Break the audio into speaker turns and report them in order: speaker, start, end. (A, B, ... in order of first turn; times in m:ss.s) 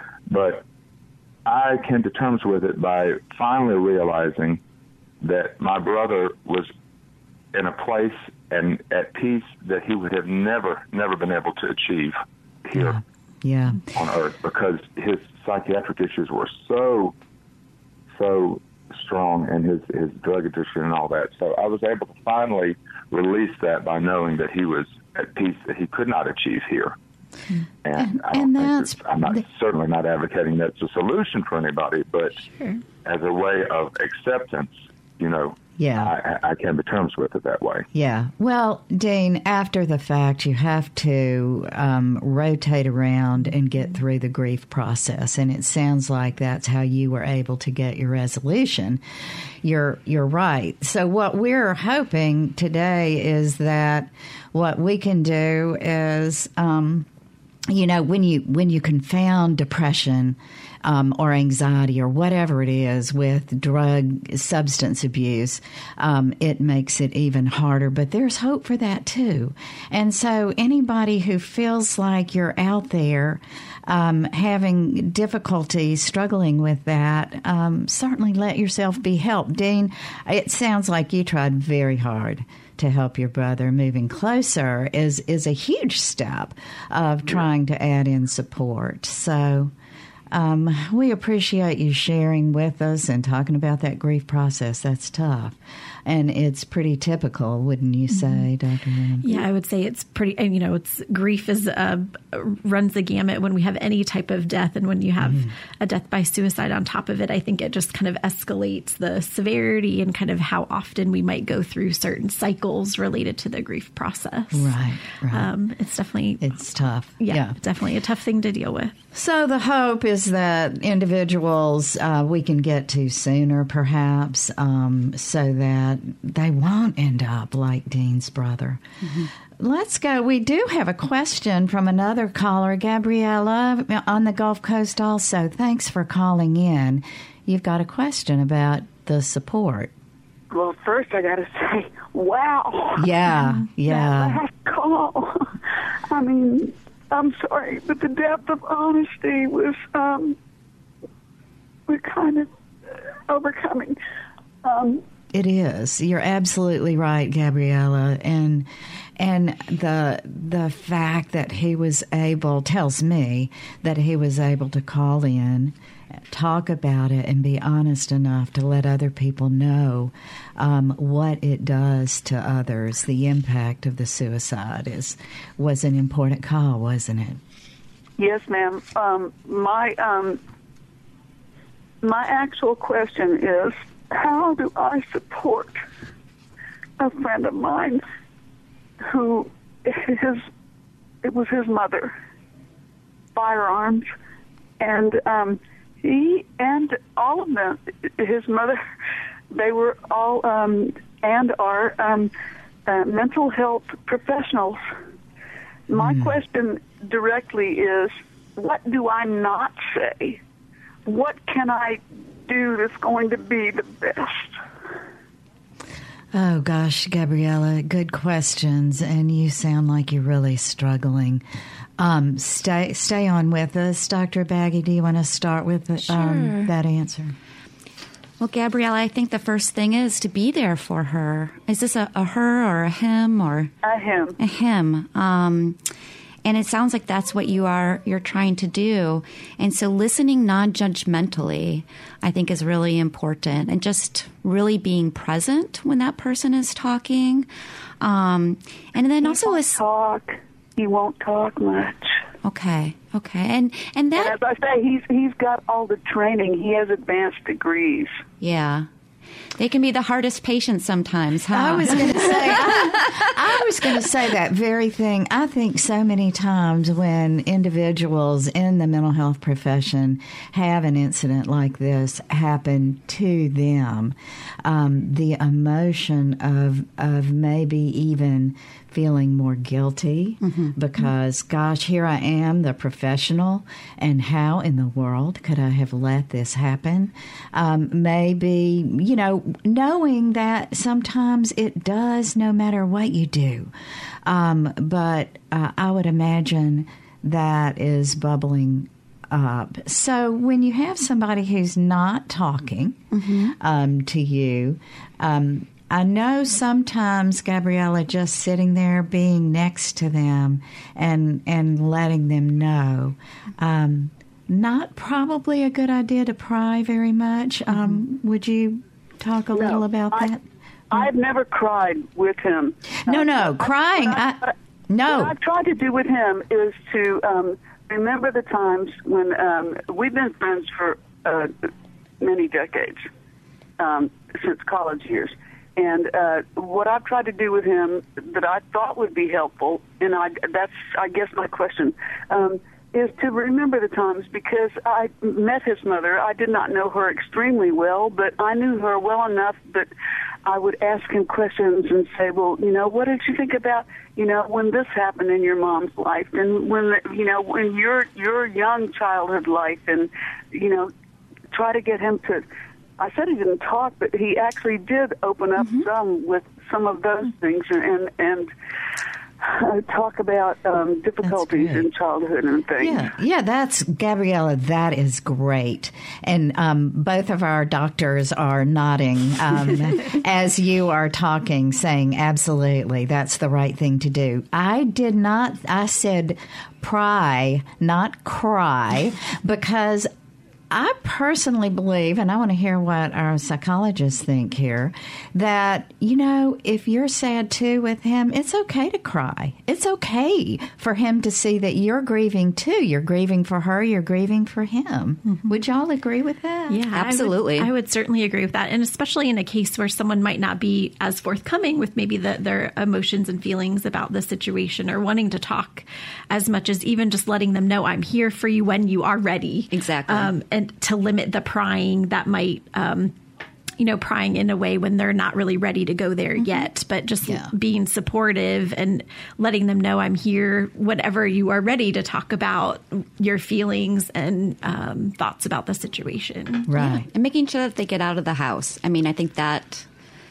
0:00.3-0:00.6 A
0:01.4-0:04.6 A
0:05.2-0:06.7 A
0:07.5-0:13.0 A
0:12.7-0:13.8 B
0:13.9-0:17.1 A
0:18.1-0:27.0 A
0:27.8-0:32.4 A
0:28.0-0:29.4 B
0:32.5-0:32.8 C
0:33.0-0:37.8 A
0:35.8-0:36.1 B
0:37.9-0:49.0 B
0:49.6-0:57.1 B
0:57.7-1:29.7 B
1:30.3-1:39.3 B
1:38.2-1:38.4 C
1:39.2-1:54.8 C
1:45.2-1:45.5 B
1:54.5-1:55.5 B
1:55.3-1:56.6 C
1:56.4-1:57.6 B
1:57.2-1:58.9 C
1:59.1-2:08.8 B
2:09.0-2:09.3 D
2:09.6-2:19.9 B
2:20.5-2:23.1 E
2:23.0-2:24.4 B
2:23.8-2:25.6 E
2:26.1-2:30.4 E
2:31.9-2:32.5 E
2:33.3-2:34.0 E
2:34.6-2:35.0 E
2:35.3-2:45.7 B
2:46.3-2:57.4 B
2:58.2-3:00.4 E
3:02.0-3:05.8 E
3:07.0-3:08.0 E
3:09.0-3:10.4 E
3:11.2-3:12.1 E
3:13.3-3:14.1 E
3:14.8-3:18.8 E
3:19.5-3:22.3 E
3:22.8-3:24.8 E
3:25.9-3:30.4 E
3:26.0-3:26.4 B
3:31.0-3:34.6 E
3:36.3-3:41.4 B
3:42.0-3:47.3 B
3:46.0-3:46.7 D
3:48.4-3:53.7 D
3:53.8-3:54.4 E
3:54.4-3:55.8 D
3:56.4-4:07.5 D
4:08.0-4:09.8 D
4:09.2-4:12.1 E
4:12.4-4:14.4 D
4:14.1-4:18.1 E
4:18.4-4:18.9 D
4:19.6-4:23.2 D
4:21.5-4:53.7 B
4:40.4-4:40.7 D
4:54.2-5:03.0 B
5:03.1-5:03.5 D
5:03.5-5:20.4 B
5:19.5-5:20.3 E
5:20.9-5:24.5 E
5:23.0-5:25.3 B
5:25.0-5:31.5 E
5:32.2-5:33.0 E
5:33.8-5:49.9 E
5:50.4-6:00.9 E
6:01.5-6:02.4 E
6:03.0-6:08.5 E
6:05.6-6:05.8 D
6:09.4-6:13.1 E
6:11.2-6:11.9 B
6:12.8-6:30.1 B
6:30.7-6:46.8 B
6:46.7-7:03.1 C
6:46.9-6:47.7 D
6:59.7-7:00.3 D
7:03.8-7:16.7 C
7:07.2-7:07.5 B
7:16.7-7:17.0 B
7:16.8-7:19.9 D